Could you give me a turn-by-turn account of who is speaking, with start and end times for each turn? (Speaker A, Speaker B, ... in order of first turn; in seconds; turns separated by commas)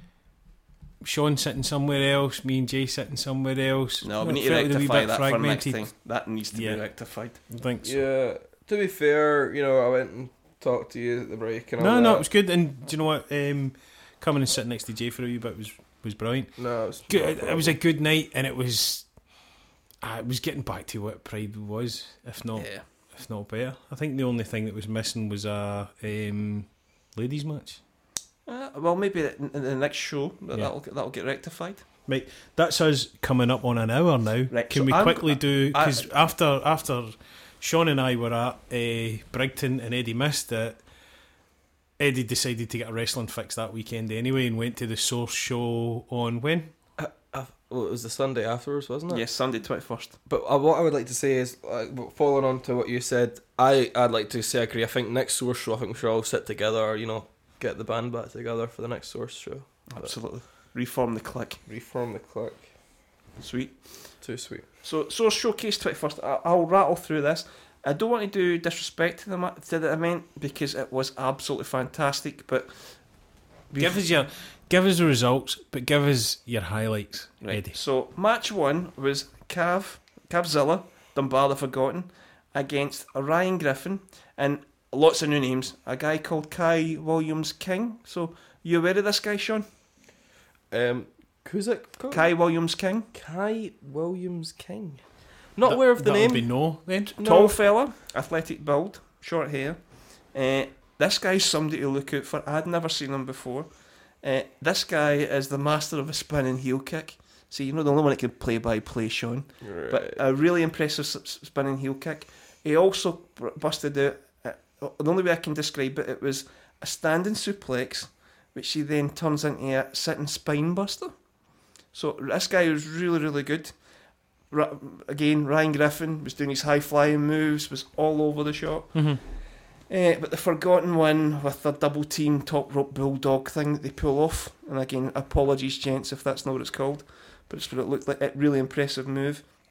Speaker A: 1.0-5.9, Speaker B: 4.0-7.4, Speaker A: 6.5-6.8, Speaker A: 7.5-7.9, Speaker C: 7.8-12.3, Speaker A: 11.8-19.1, Speaker C: 16.6-17.8, Speaker A: 20.0-27.8, Speaker B: 28.5-31.9, Speaker A: 32.1-40.8, Speaker B: 34.5-36.1, Speaker A: 42.0-46.7, Speaker C: 47.0-49.2, Speaker B: 49.1-50.1, Speaker C: 50.3-60.2, Speaker B: 59.9-61.6, Speaker C: 61.7-62.7, Speaker B: 63.4-64.1, Speaker C: 64.2-64.7, Speaker B: 64.8-72.7, Speaker B: 73.7-74.0, Speaker A: 73.8-77.8, Speaker B: 77.4-89.7, Speaker C: 90.7-92.3, Speaker B: 92.1-93.1, Speaker C: 93.1-96.5, Speaker A: 95.7-97.1, Speaker B: 97.1-103.7, Speaker C: 97.2-97.6, Speaker B: 104.2-121.1, Speaker C: 109.6-110.2, Speaker B: 121.9-123.8, Speaker B: 124.5-129.2, Speaker A: 128.9-129.2, Speaker B: 129.9-139.4